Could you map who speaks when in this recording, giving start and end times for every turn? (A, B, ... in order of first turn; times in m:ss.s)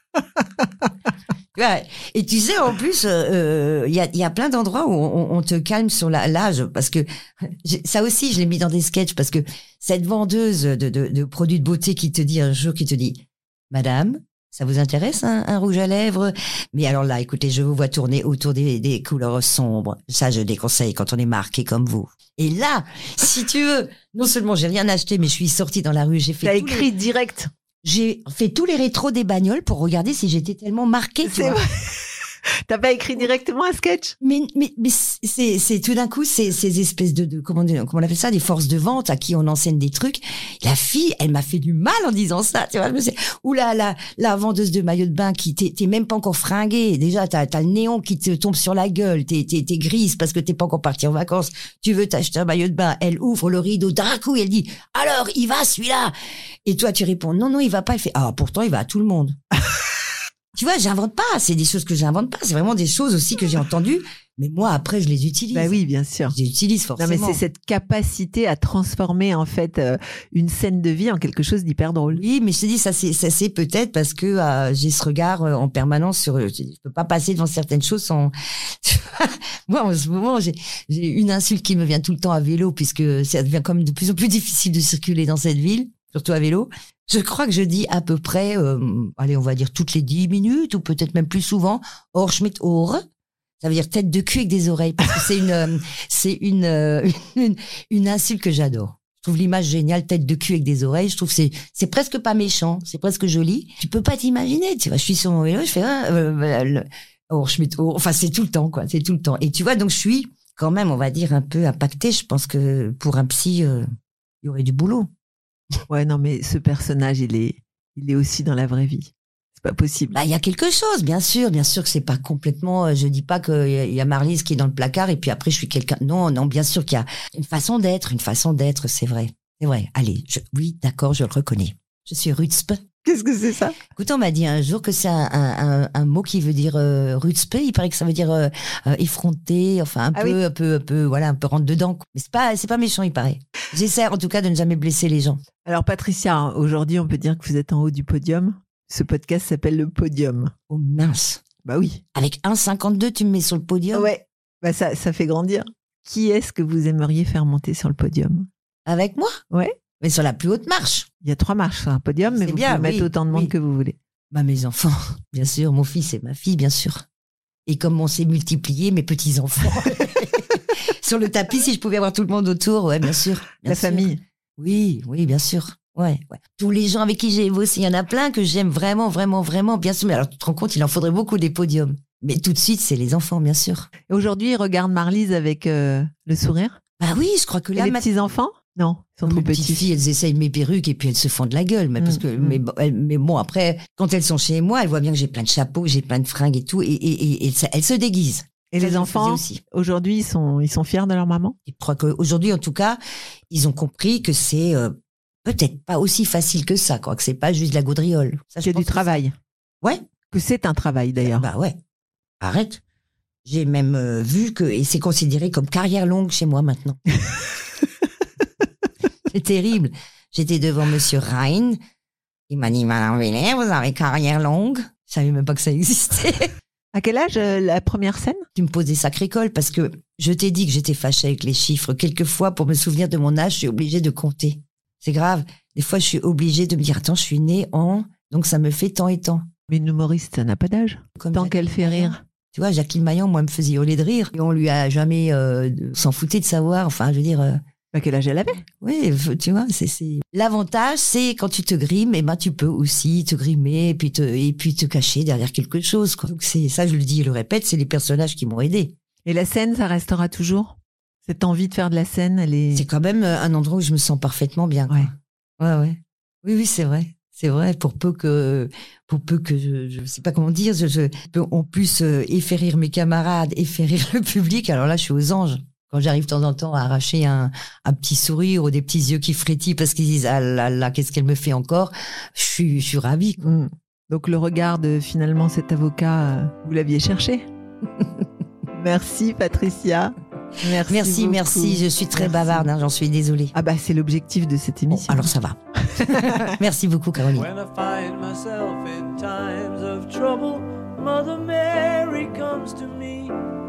0:01.5-0:26.9 A
0:26.4-0:27.5 B
0:27.8-0:31.6 A
0:31.2-0:32.1 B
0:32.7-0:34.2 B
0:34.2-0:56.1 A
0:56.6-0:59.4 A
1:00.5-1:07.4 A
1:05.5-1:06.3 B
1:07.0-1:12.2 B
1:12.1-1:33.0 A
1:33.6-1:53.8 A
1:54.4-1:55.1 A
1:55.9-2:00.1 B
2:00.1-2:12.8 A
2:13.0-2:13.8 B
2:14.0-2:25.4 A
2:20.1-2:20.4 B
2:25.6-2:30.5 B
2:30.7-2:31.4 A
2:31.6-2:32.0 B
2:32.1-2:34.1 A
2:33.9-2:38.5 B
2:38.8-2:39.4 A
2:40.0-2:41.1 A
2:41.2-2:44.0 B
2:42.3-2:43.5 A
2:44.3-2:47.0 A
2:47.6-3:03.9 A
2:53.6-2:54.2 B
3:04.1-3:06.8 B
3:07.0-3:08.0 A
3:07.8-3:09.9 B
3:09.2-3:19.6 A
3:12.0-3:12.6 B
3:18.7-3:21.6 B
3:21.6-3:23.0 A
3:23.5-3:29.2 A
3:28.6-3:29.4 B
3:30.3-3:31.5 B
3:31.3-3:31.8 A
3:32.4-3:32.8 A
3:33.4-3:37.0 A
3:39.3-3:41.8 A
3:42.5-3:46.5 A
3:46.9-3:48.5 B
3:48.6-3:59.5 A
3:59.7-4:02.2 B
4:01.2-4:07.6 A
4:07.9-4:08.6 B
4:08.6-4:18.9 A
4:19.2-4:22.8 B
4:22.7-4:43.6 A
4:43.4-4:47.5 B
4:48.7-4:52.7 B
4:50.6-4:53.5 A
4:53.5-4:55.3 B
4:54.9-4:57.5 A
4:55.9-4:56.5 B
4:57.3-5:03.3 C